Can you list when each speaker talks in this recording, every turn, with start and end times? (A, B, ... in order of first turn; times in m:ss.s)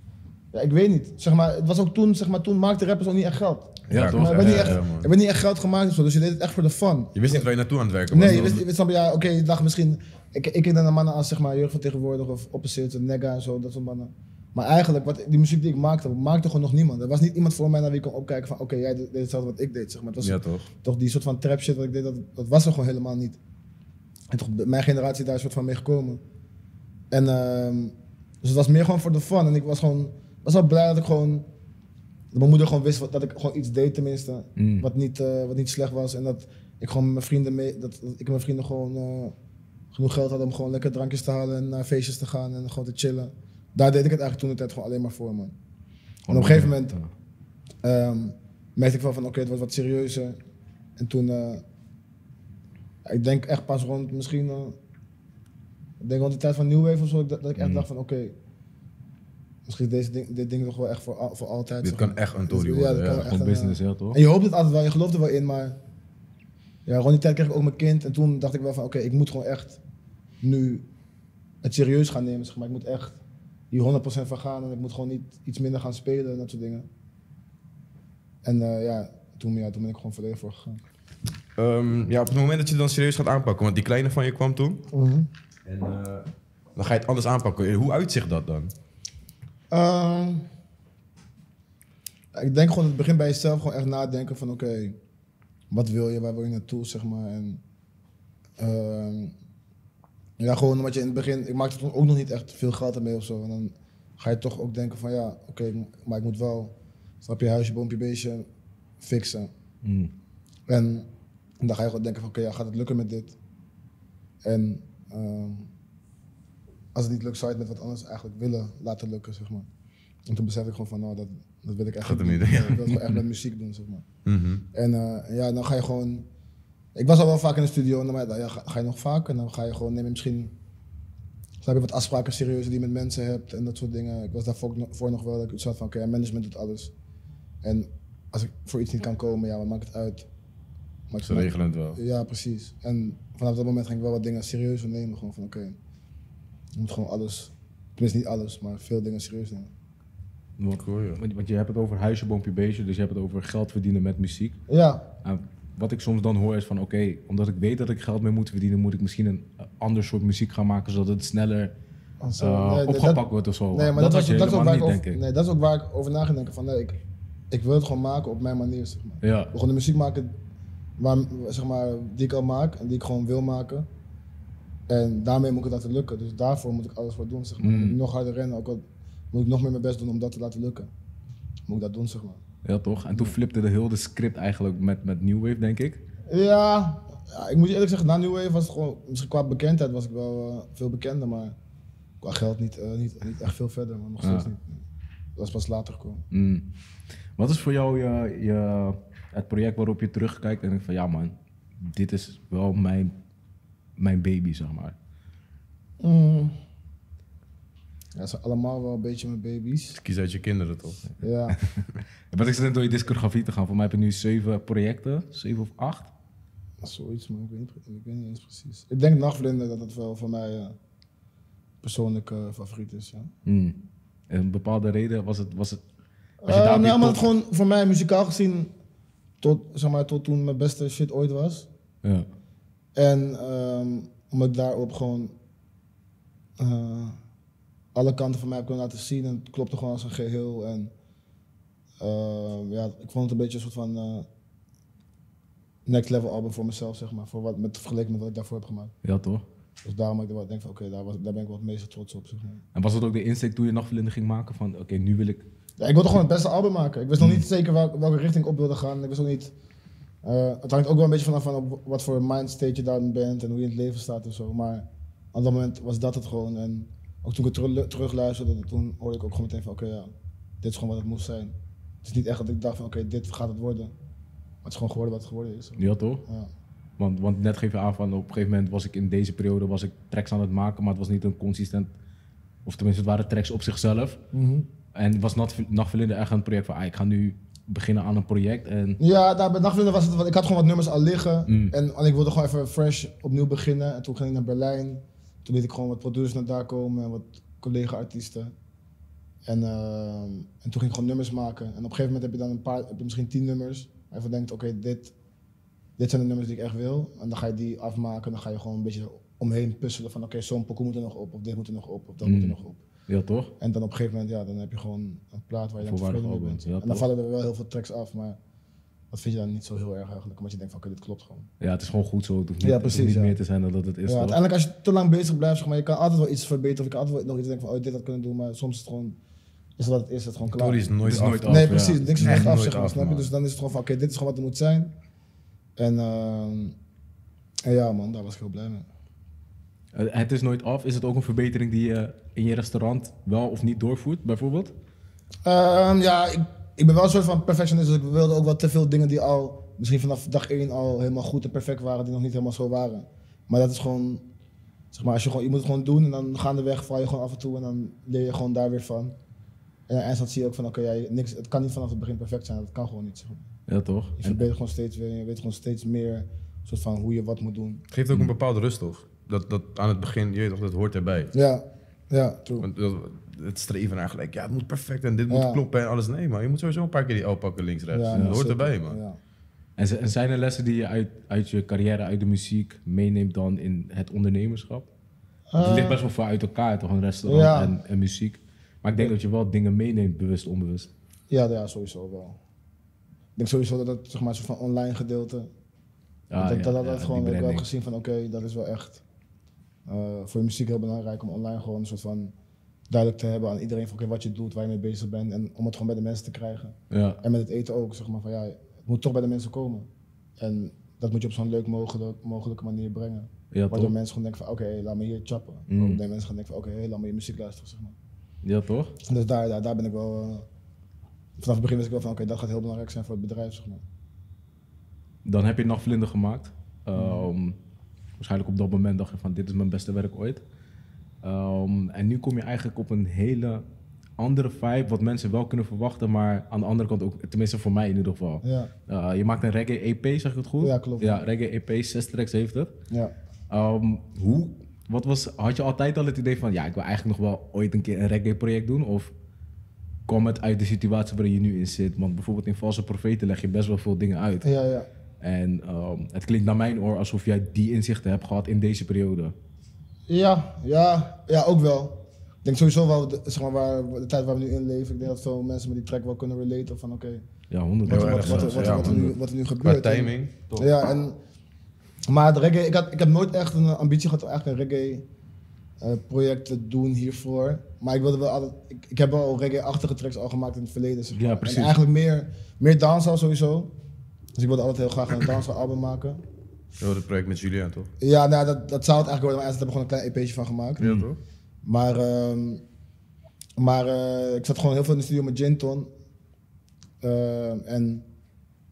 0:00.5-0:07.4 A
0:03.9-0:04.8 B
0:03.9-0:05.1 C
0:07.2-0:08.6 C
0:08.1-0:23.4 A
0:20.2-0:20.7 C
0:24.3-0:26.2 A
0:27.1-0:31.4 A
0:32.3-0:39.3 A
0:34.6-0:34.9 B
0:39.9-0:45.5 A
0:46.3-0:47.1 B
0:46.3-0:46.9 A
0:47.8-0:50.4 A
0:51.0-0:51.6 A
0:53.0-0:54.8 A
0:56.0-0:58.3 A
0:57.6-0:57.8 B
0:59.6-1:05.8 A
1:01.8-1:03.3 C
1:03.1-1:04.2 B
1:06.8-1:09.8 A
1:10.4-1:10.8 A
1:11.6-1:13.2 A
1:13.7-1:16.8 A
1:18.4-1:20.8 A
1:21.6-1:24.8 C
1:24.9-1:25.3 A
1:25.6-1:28.7 C
1:29.7-1:30.5 A
1:32.3-1:35.0 A
1:35.7-1:37.6 A
1:38.6-1:39.3 A
1:40.4-1:48.4 A
1:49.0-1:49.5 A
1:49.8-1:50.1 B
1:50.7-1:51.1 A
1:51.6-1:53.3 A
1:54.4-1:55.7 A
1:56.9-1:59.7 A
2:00.3-2:04.0 A
2:02.0-2:03.1 C
2:04.2-2:04.6 C
2:04.7-2:06.2 A
2:07.0-2:10.5 A
2:11.6-2:16.9 A
2:17.6-2:20.2 A
2:21.1-2:25.8 A
2:21.2-2:22.0 C
2:26.7-2:29.7 A
2:30.6-2:34.6 B
2:30.8-2:31.2 C
2:34.7-2:35.0 A
2:35.2-2:41.7 B
2:42.2-2:47.0 A
2:42.4-2:45.2 B
2:47.5-2:50.3 A
2:49.2-2:49.5 B
2:51.0-2:53.9 A
2:54.9-3:00.9 A
2:57.6-2:58.0 B
3:01.7-3:02.4 A
3:02.6-3:06.0 B
3:06.3-3:11.5 A
3:12.2-3:14.8 A
3:14.2-3:14.5 B
3:15.4-3:16.2 A
3:16.3-3:16.6 B
3:17.4-3:23.1 B
3:24.0-3:25.0 B
3:26.0-3:26.6 A
3:28.2-3:30.0 A
3:30.0-3:31.0 C
3:31.2-3:31.6 A
3:31.6-3:36.1 B
3:36.8-3:40.8 A
3:41.8-3:43.3 A
3:43.4-3:43.8 B
3:44.3-3:45.8 B
3:46.4-3:48.7 A
3:46.5-3:47.2 B
3:49.4-3:51.7 A
3:53.0-3:55.3 A
3:56.6-3:57.2 A
3:57.9-4:00.9 A
4:02.0-4:04.2 A
4:05.8-4:08.9 A
4:09.0-4:09.4 B
4:09.8-4:12.6 A
4:12.7-4:15.4 B
4:15.8-4:19.5 A
4:17.2-4:17.4 B
4:20.2-4:33.9 A
4:34.6-4:36.5 A
4:35.8-4:36.2 B
4:37.0-4:41.9 B
4:42.6-4:44.2 B
4:44.3-4:44.7 A
4:44.9-4:49.0 B
4:49.0-4:58.5 A
4:51.5-4:51.7 B
4:59.4-5:05.1 A
5:06.0-5:12.8 A
5:12.2-5:12.5 B
5:13.1-5:13.5 B
5:13.6-5:18.4 A
5:15.8-5:17.0 B
5:19.1-5:21.5 A
5:21.6-5:24.4 B
5:22.6-5:23.4 A
5:24.0-5:29.2 A
5:29.8-5:30.8 A
5:30.5-5:33.3 C
5:31.0-5:32.6 B
5:31.4-5:34.9 A
5:35.8-5:36.8 A
5:37.6-5:38.8 A
5:39.9-5:44.7 B
5:45.4-5:54.2 A
5:54.9-5:59.1 A
5:59.9-6:03.5 A
6:03.7-6:04.4 B
6:04.2-6:07.8 A
6:07.9-6:11.3 C
6:11.3-6:12.6 A
6:12.6-6:19.0 C
6:15.3-6:15.6 A
6:17.9-6:19.2 A
6:18.1-6:18.4 B
6:19.8-6:24.9 B
6:25.5-6:26.0 A
6:25.6-6:30.9 B
6:27.2-6:27.7 A
6:31.3-6:32.4 A
6:33.4-6:35.5 A
6:36.3-6:37.6 B
6:36.4-6:39.0 A
6:39.9-6:42.3 A
6:42.9-6:49.9 A
6:46.9-6:47.2 B
6:50.4-6:58.0 A
6:53.5-6:53.9 B
6:55.7-6:56.0 B
6:58.4-6:58.9 B
6:59.0-7:00.4 A
7:01.4-7:03.8 A
7:05.2-7:07.6 B
7:07.0-7:07.2 A
7:08.2-7:10.4 B
7:11.2-7:13.6 B
7:14.2-7:22.7 B
7:18.4-7:18.7 A
7:20.6-7:21.2 A
7:23.5-7:29.1 B
7:30.1-7:34.5 B
7:34.4-7:34.9 A
7:35.2-7:39.3 B
7:40.1-7:47.2 A
7:47.5-7:49.2 B
7:47.8-7:51.2 A
7:47.9-7:50.5 C
7:52.1-7:55.0 A
7:55.8-8:03.7 A
8:01.1-8:01.8 B
8:04.4-8:06.2 A
8:06.8-8:07.9 C
8:08.0-8:10.9 A
8:10.8-8:11.2 C
8:10.8-8:11.1 B
8:11.6-8:12.6 A
8:13.6-8:15.9 A
8:17.0-8:18.0 A